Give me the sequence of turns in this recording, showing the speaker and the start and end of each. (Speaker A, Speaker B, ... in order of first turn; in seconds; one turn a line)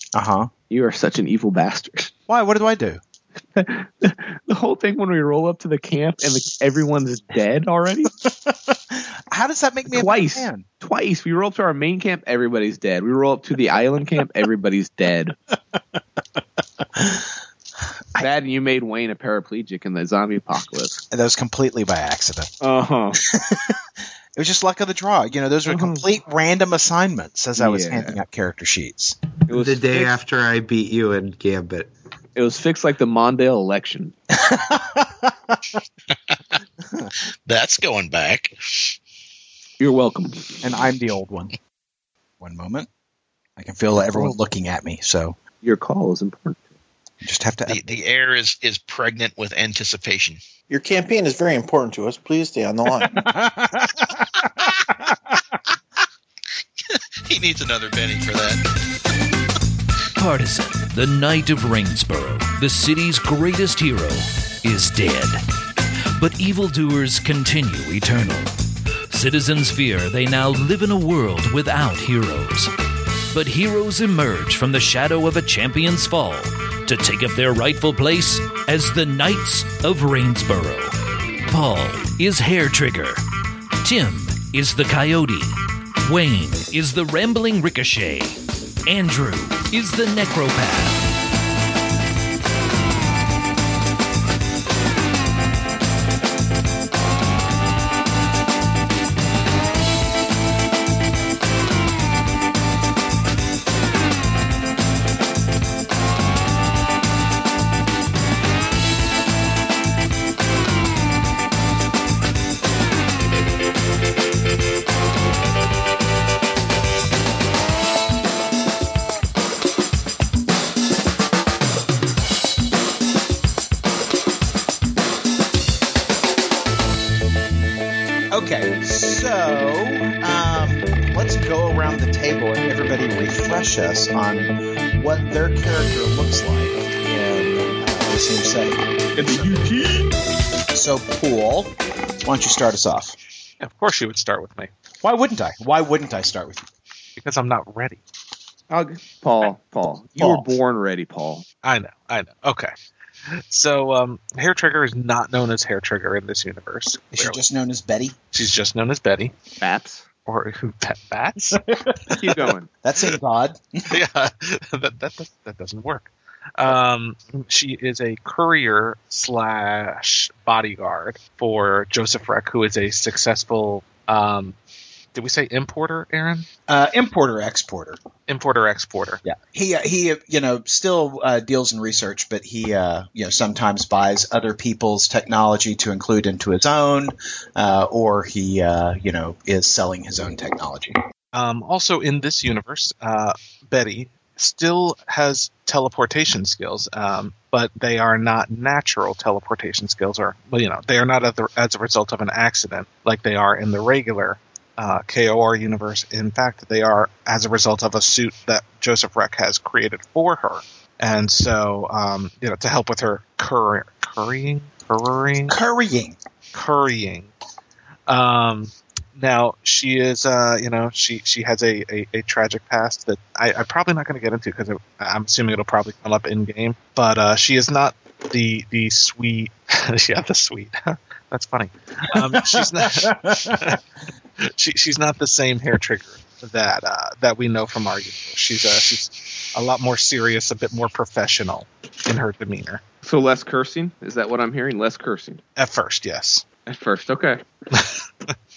Speaker A: 0.1-0.5
Speaker B: 0.7-2.1
Speaker A: 2.3-3.0
Speaker B: 3.5-8.1
Speaker A: 8.1-10.6
Speaker B: 9.9-15.4
Speaker A: 16.8-17.3
Speaker B: 18.2-21.0
Speaker A: 21.1-22.5
Speaker B: 22.6-23.2
Speaker A: 23.2-23.8
Speaker A: 24.3-29.2
Speaker B: 25.7-26.0
Speaker B: 27.6-28.2
Speaker B: 29.5-30.1
Speaker C: 29.5-31.9
Speaker B: 32.4-34.1
Speaker A: 34.3-35.8
Speaker D: 37.5-39.0
Speaker B: 39.8-40.7
Speaker A: 40.6-41.5
Speaker A: 42.4-42.9
Speaker A: 43.6-45.4
Speaker B: 45.6-46.6
Speaker A: 47.2-48.0
Speaker D: 47.7-50.4
Speaker E: 50.7-53.3
Speaker A: 53.1-55.3
Speaker D: 56.9-58.6
Speaker F: 60.1-65.4
Speaker F: 66.2-68.5
Speaker F: 69.1-72.7
Speaker F: 73.3-80.9
Speaker F: 81.5-83.2
Speaker F: 83.8-91.1
Speaker A: 128.3-139.5
Speaker B: 139.2-140.1
Speaker A: 140.7-143.2
Speaker G: 143.6-144.7
Speaker A: 145.0-146.7
Speaker G: 147.2-148.0
Speaker B: 148.7-151.4
Speaker A: 150.2-150.5
Speaker G: 151.6-152.7
Speaker G: 153.4-157.4
Speaker A: 157.1-158.1
Speaker G: 158.3-159.3
Speaker B: 159.6-160.0
Speaker G: 160.2-161.6
Speaker A: 161.5-162.3
Speaker B: 162.2-162.7
Speaker A: 162.8-164.0
Speaker G: 163.9-174.5
Speaker G: 175.1-176.5
Speaker A: 176.7-178.0
Speaker G: 178.3-179.2
Speaker A: 179.2-191.0
Speaker G: 191.3-215.6
Speaker A: 215.5-216.2
Speaker G: 216.5-217.3
Speaker G: 218.1-233.8
Speaker A: 232.3-233.7
Speaker G: 234.4-242.8
Speaker B: 243.0-245.4
Speaker G: 245.6-246.4
Speaker B: 246.7-247.4
Speaker G: 247.7-248.0